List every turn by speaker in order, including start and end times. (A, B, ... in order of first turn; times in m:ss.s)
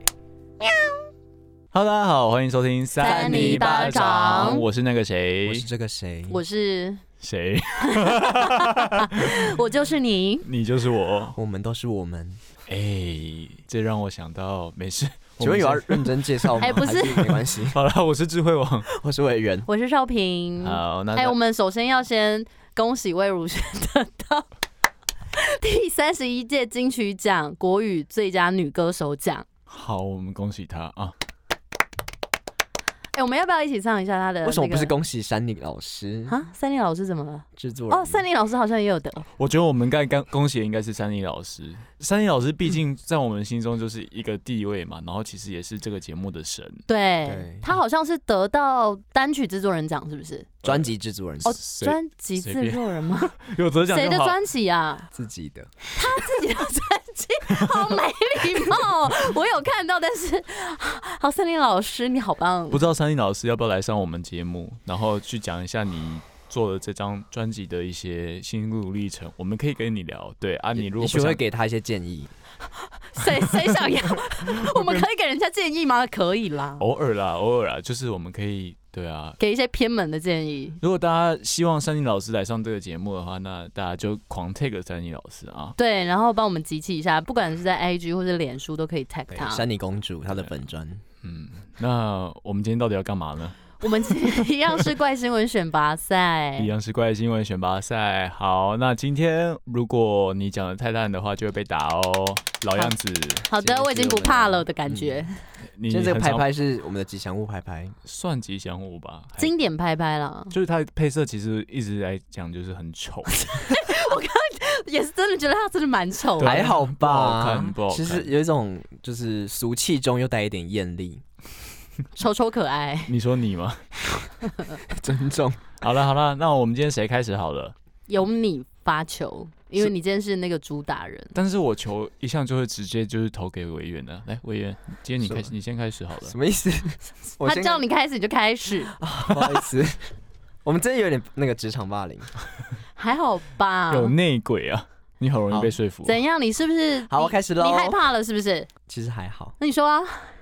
0:01.7-0:05.7 A
0:03.0-0:04.7 B
0:03.0-0:04.6 C
0:05.4-0:06.4 C
0:06.3-0:07.0 B
0:07.2-0:09.5 A
0:07.8-0:10.5 B
0:10.4-0:11.4 A
0:11.4-0:12.4 C
0:12.7-0:18.9 A
0:15.4-0:17.8 C
0:16.6-0:17.2 B
0:18.9-0:19.7 C
0:19.7-0:24.5 B
0:20.6-0:21.4 A
0:25.4-0:29.4 B
0:29.7-0:31.1 A
0:33.2-0:34.9 B
0:34.4-0:36.4 C
0:36.3-0:39.2 B
0:37.6-0:38.2 C
0:39.4-0:46.8 A
0:46.9-0:50.5 B
0:47.3-0:47.7 C
0:50.6-0:51.6 C
0:51.4-0:53.3 B
0:51.6-0:54.4 A
0:53.9-0:55.1 B
0:55.1-0:55.8 C
0:56.0-1:02.8 B
0:57.5-0:58.0 A
1:02.7-1:11.4 A
1:10.8-1:12.3 C
1:12.9-1:16.8 B
1:14.4-1:15.0 A
1:16.8-1:19.4 A
1:19.4-1:20.8 B
1:20.8-1:25.8 A
1:25.8-1:29.6 B
1:29.3-1:31.0 C
1:31.2-1:34.4 A
1:33.8-1:36.7 B
1:36.6-1:43.5 A
1:43.5-1:45.4 B
1:43.6-1:45.2 C
1:45.8-1:46.5 A
1:45.9-1:48.0 C
1:48.0-1:49.5 A
1:49.4-1:50.5 B
1:50.5-1:53.7 A
1:53.5-1:56.6 B
1:56.4-1:58.3 A
1:56.4-2:01.2 C
2:02.2-2:03.1 B
2:03.1-2:03.8 A
2:04.9-2:05.6 C
2:05.8-2:07.7 A
2:08.1-2:11.3 B
2:11.3-2:16.4 A
2:15.2-2:15.5 C
2:16.2-2:17.8 C
2:17.4-2:19.0 B
2:18.9-2:20.1 C
2:20.6-2:22.3 C
2:23.0-2:24.2 B
2:23.9-2:26.2 A
2:26.0-2:28.7 B
2:27.1-2:28.0 C
2:28.9-2:29.5 C
2:29.6-2:30.3 B